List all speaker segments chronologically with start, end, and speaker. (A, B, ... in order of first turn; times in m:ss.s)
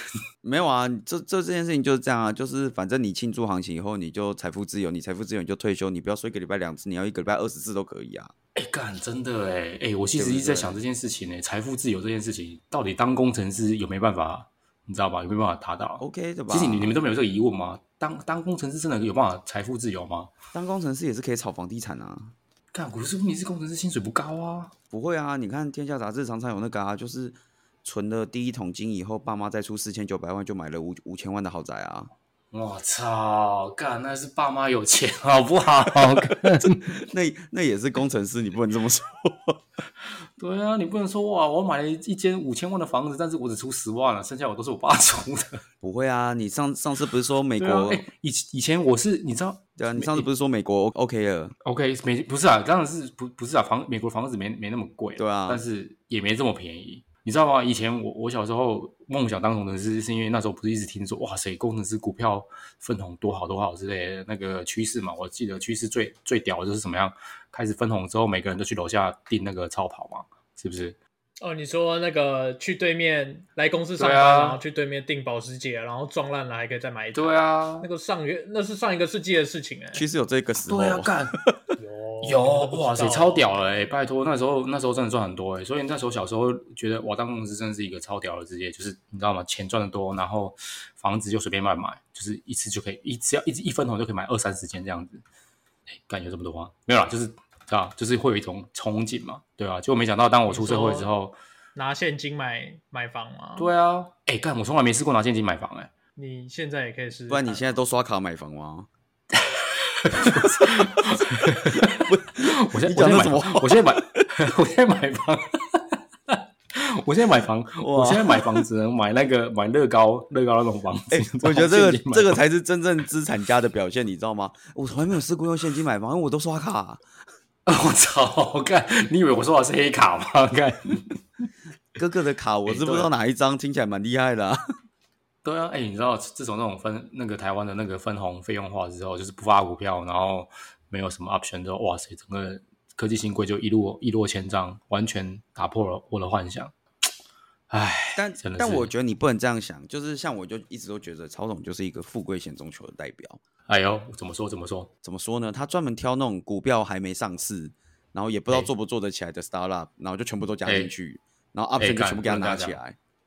0:00.4-0:08.3 A
0:08.6-0:20.3 B
0:10.2-0:10.8 A
0:16.0-0:16.9 A
0:20.5-0:22.4 A
0:22.7-0:24.7 B
0:24.9-0:32.1 A
0:32.5-0:37.0 B
0:36.6-0:39.6 A
0:40.4-0:45.6 B
0:45.8-0:48.1 A
0:47.6-0:50.3 B
0:49.8-0:51.6 A
0:51.6-1:11.0 B
0:55.2-0:55.6 A
1:11.4-1:20.0 C
1:14.0-1:14.6 B
1:17.2-1:17.9 B
1:19.9-1:21.1 A
1:20.7-1:21.4 B
1:21.8-1:23.5 C
1:22.2-1:35.2 B
1:36.0-1:41.4 B
1:40.5-1:41.1 C
1:41.8-1:43.7 C
1:43.6-1:45.9 B
1:46.2-1:47.7 C
1:47.3-1:48.9 A
1:49.3-2:02.4 B
1:50.2-1:50.9 A
1:51.7-1:54.2 A
1:57.8-1:58.6 A
2:01.1-2:07.0 A
2:07.7-2:11.2 B
2:12.0-2:14.6 A
2:12.6-2:13.1 B
2:15.4-2:26.7 B
2:27.7-2:28.9 B
2:28.2-2:33.4 A
2:33.7-2:34.9 B
2:35.0-2:43.0 A
2:40.6-2:40.9 B
2:41.8-2:42.8 B